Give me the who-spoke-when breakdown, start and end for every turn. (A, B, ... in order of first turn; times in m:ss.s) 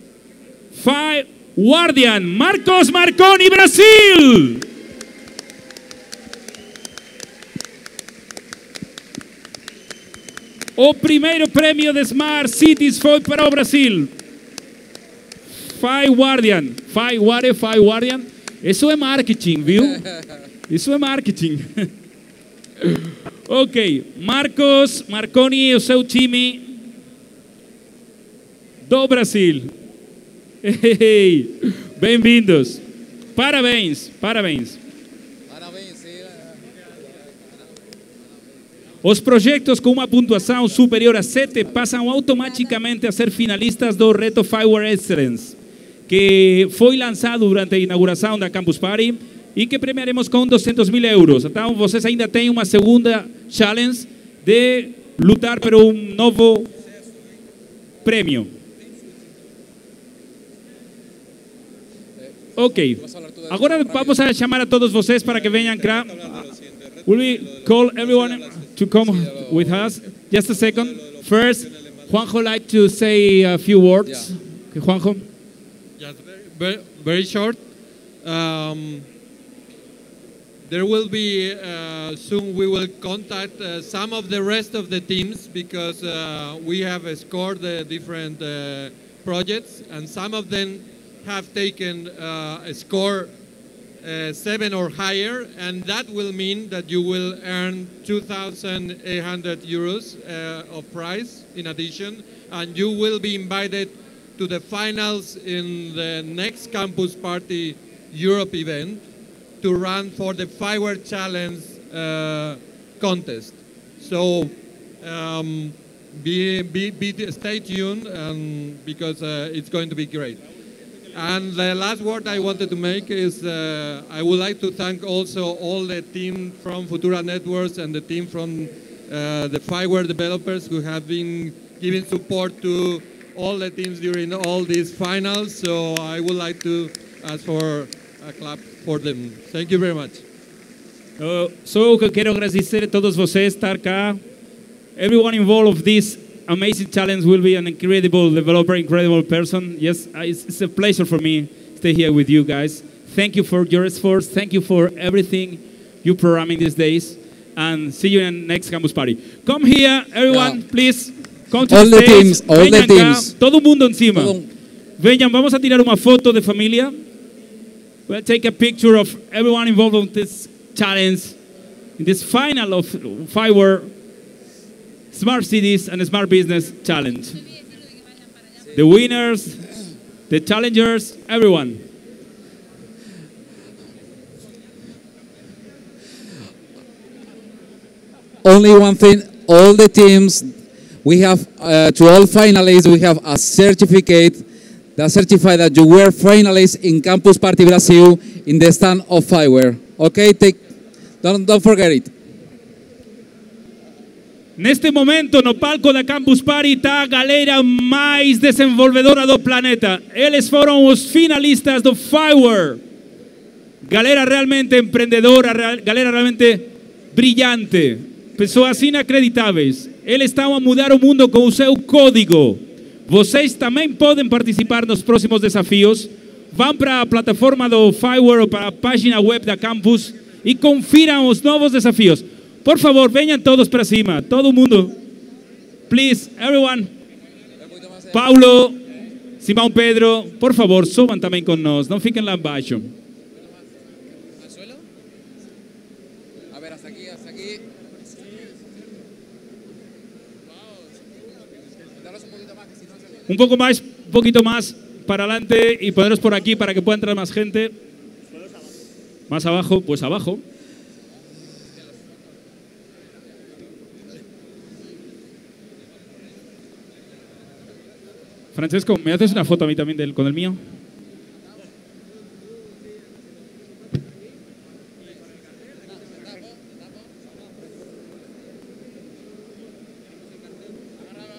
0:00.7-0:04.7 A
0:10.8-0:14.1 A
0:15.6-0:20.1 A
0:20.7-0:21.9 A
0:22.8-0:26.8 A
0:28.9-0:29.7 A
0:30.6-0:32.8 A
0:33.4-0:34.8 A
0:35.5-0:36.5 B
0:39.0-0:56.7 A
0:58.0-0:58.5 A
1:02.6-1:06.5 A
1:02.8-1:04.2 B
1:07.0-1:15.3 A
1:09.1-1:09.8 B
1:16.0-1:17.6 C
1:18.2-1:19.1 C
1:20.7-1:33.3 C
1:34.0-1:49.0 C
1:49.6-2:00.4 C
2:01.1-2:20.2 C
2:21.2-2:24.2 A
2:25.0-2:44.4 A
2:40.3-2:40.6 B
2:41.7-2:43.4 B
2:44.2-2:44.5 B
2:45.0-2:47.0 A
2:48.1-2:51.4 A
2:52.0-2:53.9 A
2:55.1-2:57.6 A
2:58.7-2:59.6 A
3:00.3-3:01.8 A
3:08.4-3:10.5 B
3:11.0-3:14.4 B
3:15.0-3:20.6 B
3:21.2-3:22.1 B
3:24.6-3:32.8 A
3:33.8-3:55.0 A
3:55.9-3:56.9 A
3:57.6-3:58.2 B
3:58.1-3:58.8 A
3:59.4-4:02.9 A
4:04.4-4:04.8 B
4:06.5-4:07.6 B
4:12.0-4:13.2 B
4:13.3-4:17.8 A
4:19.3-4:20.4 A
4:28.6-4:30.6 A